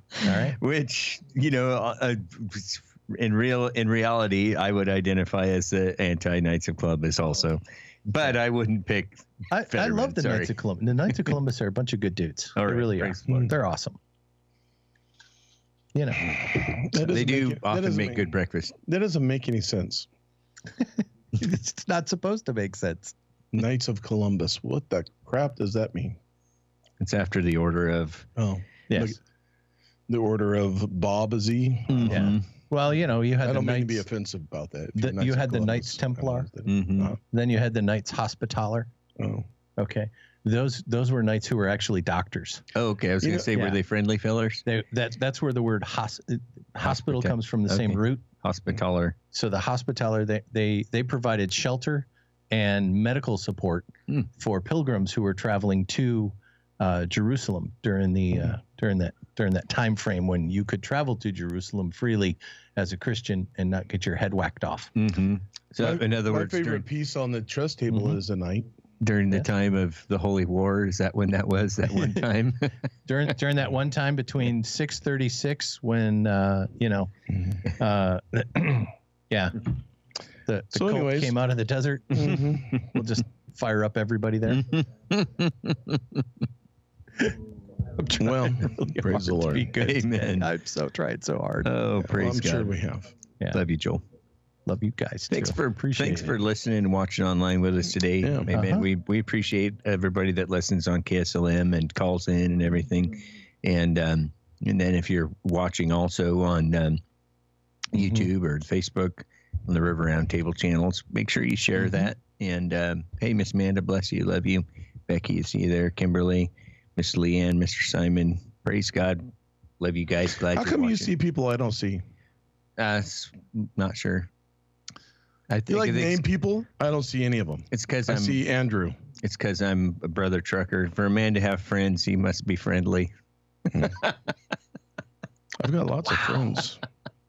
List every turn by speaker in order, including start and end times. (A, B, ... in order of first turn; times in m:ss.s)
0:00.2-0:00.6 A
0:00.2-0:10.5 B
0:09.5-0:14.0 A
0:12.6-0:13.4 B
0:13.3-0:13.5 C
0:15.9-0:16.4 A
0:16.5-0:18.3 C
0:17.0-0:18.8 B
0:18.9-0:20.1 C
0:20.8-0:23.1 A
0:23.5-0:26.2 C
0:27.0-0:28.3 B
0:28.4-0:29.2 C
0:28.9-0:29.2 A
0:30.1-0:32.4 C
0:31.9-0:32.4 B
0:32.1-0:34.1 A
0:33.4-0:37.2 C
0:35.0-0:36.5 A
0:36.7-0:37.1 B
0:37.2-0:38.9 A
0:39.2-0:39.5 C
0:39.8-0:42.6 A
0:42.8-0:44.6 B
0:43.5-0:43.8 A
0:44.7-0:48.2 A
0:46.8-0:49.2 B
0:49.3-1:04.9 A
1:05.0-1:06.9 B
1:05.8-1:08.7 C
1:07.9-1:08.2 A
1:09.0-1:12.8 B
1:11.9-1:12.3 A
1:13.1-1:17.1 A
1:17.6-1:19.7 A
1:20.5-1:24.8 A
1:20.7-1:21.4 C
1:22.1-1:22.9 C
1:24.5-1:26.2 B
1:28.0-1:31.7 A
1:28.2-1:29.7 C
1:29.7-1:30.5 B
1:31.6-1:32.8 B
1:32.0-1:33.1 C
1:33.5-1:34.0 B
1:34.7-1:36.4 A
1:35.3-1:47.0 B
1:38.2-1:38.5 C
1:38.5-1:38.9 A
1:47.9-2:01.1 B
1:48.0-1:48.3 A
2:00.5-2:02.0 C
2:02.8-2:04.3 B
2:05.5-2:06.2 B
2:05.7-2:09.0 C
2:07.7-2:08.4 B
2:09.2-2:13.1 B
2:15.6-2:16.8 C